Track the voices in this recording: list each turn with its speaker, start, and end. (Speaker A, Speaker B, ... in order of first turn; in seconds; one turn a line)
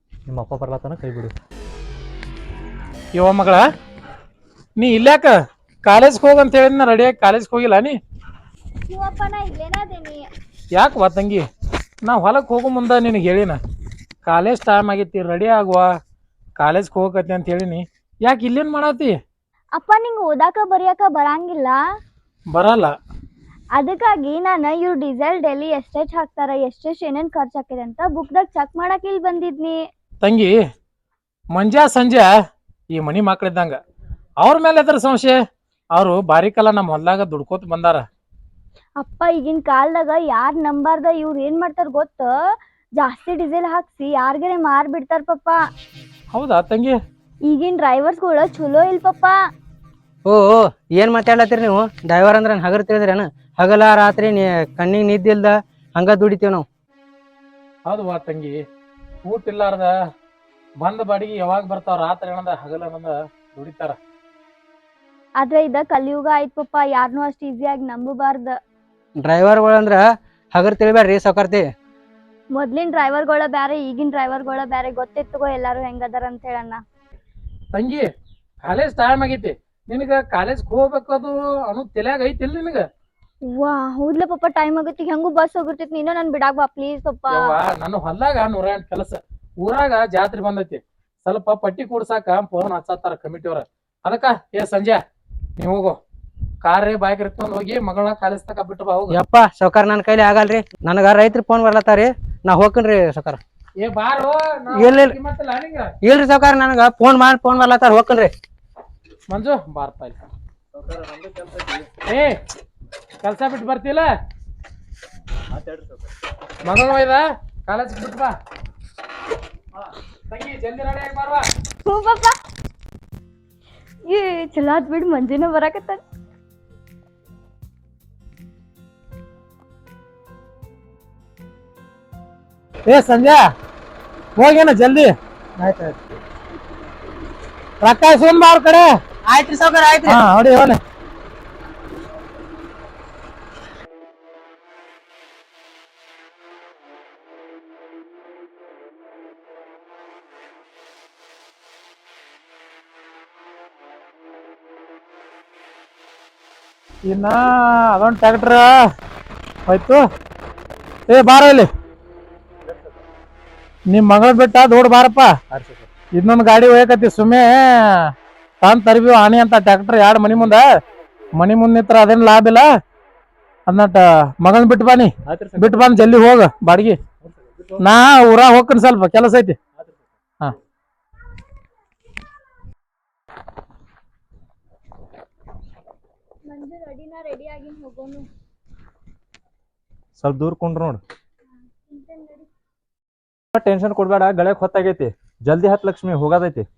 Speaker A: 0.3-1.3
Speaker B: 3.1-3.6
Speaker B: 4.8-5.3
Speaker B: 5.8-8.0
Speaker C: 8.9-10.3
Speaker B: 10.7-11.4
Speaker B: 12.0-13.6
Speaker B: 14.2-15.9
Speaker B: 16.6-19.2
Speaker C: 19.7-21.8
Speaker B: 22.5-22.9
Speaker C: 23.7-29.8
Speaker B: 30.2-30.6
Speaker B: 31.5-32.3
Speaker B: 32.9-33.8
Speaker B: 34.4-35.4
Speaker B: 35.9-38.0
Speaker C: 39.0-42.3
Speaker C: 43.0-45.6
Speaker B: 46.3-47.0
Speaker C: 47.4-49.3
Speaker D: 50.2-56.6
Speaker B: 57.9-58.6
Speaker B: 59.2-59.9
Speaker B: 60.8-64.0
Speaker C: 65.4-68.6
Speaker D: 69.2-71.7
Speaker C: 72.5-76.8
Speaker B: 77.7-78.1
Speaker B: 78.6-82.8
Speaker C: 83.4-87.5
Speaker B: 87.3-95.0
Speaker B: 95.6-96.0
Speaker B: 96.6-99.2
Speaker D: 99.1-103.4
Speaker B: 103.8-105.9
Speaker D: 104.7-105.2
Speaker D: 106.0-108.3
Speaker B: 109.3-110.2
Speaker A: 110.7-111.9
Speaker B: 112.1-112.4
Speaker B: 113.2-114.1
Speaker A: 115.5-116.1
Speaker B: 116.6-118.3
Speaker B: 119.8-121.5
Speaker C: 121.8-122.4
Speaker C: 124.0-126.0
Speaker B: 132.9-133.4
Speaker B: 134.4-135.1
Speaker D: 135.6-135.9
Speaker B: 137.8-138.9
Speaker D: 139.3-140.2
Speaker B: 140.1-140.8
Speaker B: 157.1-158.8
Speaker B: 159.7-160.0
Speaker B: 161.1-161.7
Speaker B: 163.9-165.3
Speaker A: 165.5-165.8
Speaker B: 166.1-170.7
Speaker B: 171.4-172.7
Speaker B: 173.7-177.0
Speaker A: 175.3-175.9
Speaker A: 177.2-177.8
Speaker B: 177.8-179.6
Speaker C: 186.4-188.3
Speaker A: 190.2-191.0
Speaker C: 191.9-192.5
Speaker A: 193.5-196.7